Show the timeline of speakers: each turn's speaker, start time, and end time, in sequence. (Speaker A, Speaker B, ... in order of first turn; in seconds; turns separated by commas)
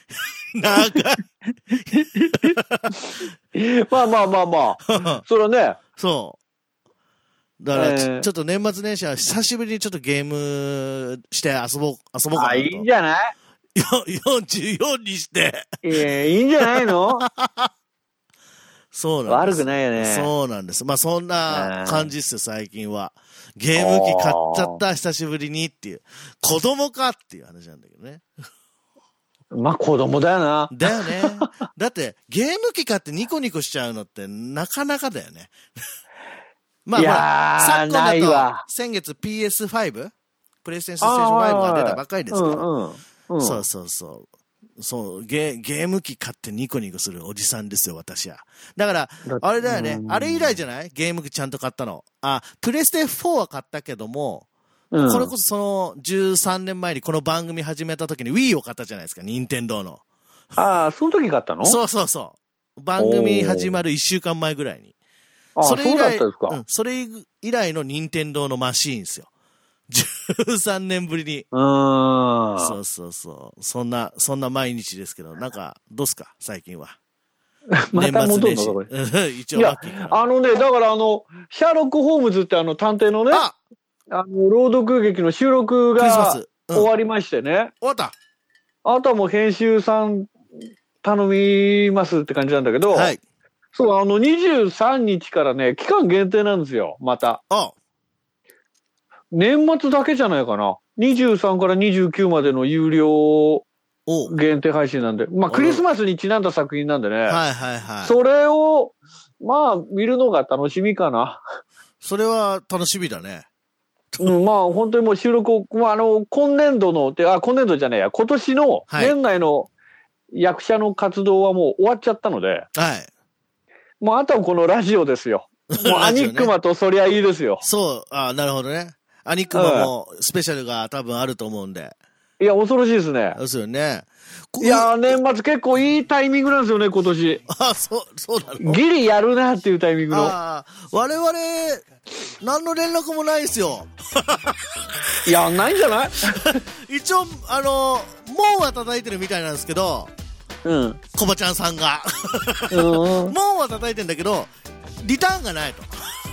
Speaker A: 0.5-3.2, Speaker B: 2.1-2.5, Speaker B: 3.5-5.8, Speaker A: 6.0-6.4, Speaker A: 7.6-12.8, Speaker B: 7.7-8.3, Speaker B: 12.3-13.3, Speaker A: 13.8-15.8, Speaker B: 15.8-17.2, Speaker A: 16.7-17.7, Speaker A: 18.9-28.2, Speaker B: 19.3-20.3, Speaker B: 21.5-22.1, Speaker B: 23.8-24.8, Speaker B: 29.5-31.5, Speaker A: 30.7-35.5, Speaker A: 36.9-40.1, Speaker B: 36.9-38.6, Speaker A: 40.6-42.7, Speaker B: 41.0-43.6, Speaker A: 43.4-44.3, Speaker A: 44.8-54.5, Speaker B: 49.2-50.5, Speaker B: 54.9-55.3, Speaker A: 55.0-60.0, Speaker B: 60.6-61.8, Speaker A: 61.6-64.9, Speaker B: 63.0-63.8, Speaker B: 65.6-66.6, Speaker A: 65.6-69.3, Speaker A: 69.9-71.5, Speaker B: 71.5-72.7, Speaker A: 72.6-77.0, Speaker B: 77.8-78.9, Speaker A: 77.9-80.2, Speaker B: 79.5-83.4, Speaker A: 83.3-83.5, Speaker B: 84.1-87.7, Speaker A: 86.0-86.9, Speaker A: 87.8-88.1, Speaker B: 88.8-90.3, Speaker B: 91.0-93.1, Speaker A: 92.9-93.2, Speaker B: 93.7-97.4, Speaker A: 97.5-97.7, Speaker B: 99.3-103.7, Speaker A: 104.1-104.3, Speaker B: 104.3-107.4, Speaker A: 105.5-105.8, Speaker A: 107.3-108.1, Speaker B: 108.0-111.4, Speaker A: 112.0-113.5, Speaker B: 114.2-119.7, Speaker A: 118.9-119.1, Speaker B: 120.3-122.7, Speaker A: 122.7-123.1, Speaker B: 124.0-127.6, Speaker A: 125.7-126.5, Speaker A: 127.6-131.9, Speaker B: 129.5-129.9, Speaker B: 132.4-133.4, Speaker A: 133.3-135.2, Speaker B: 134.6-137.4, Speaker A: 137.5-138.8, Speaker B: 138.6-140.3, Speaker A: 140.1-141.9, Speaker A: 142.4-144.6, Speaker B: 145.2-146.5, Speaker A: 146.4-150.1, Speaker B: 150.6-151.0, Speaker A: 151.1-155.9, Speaker B: 152.7-153.3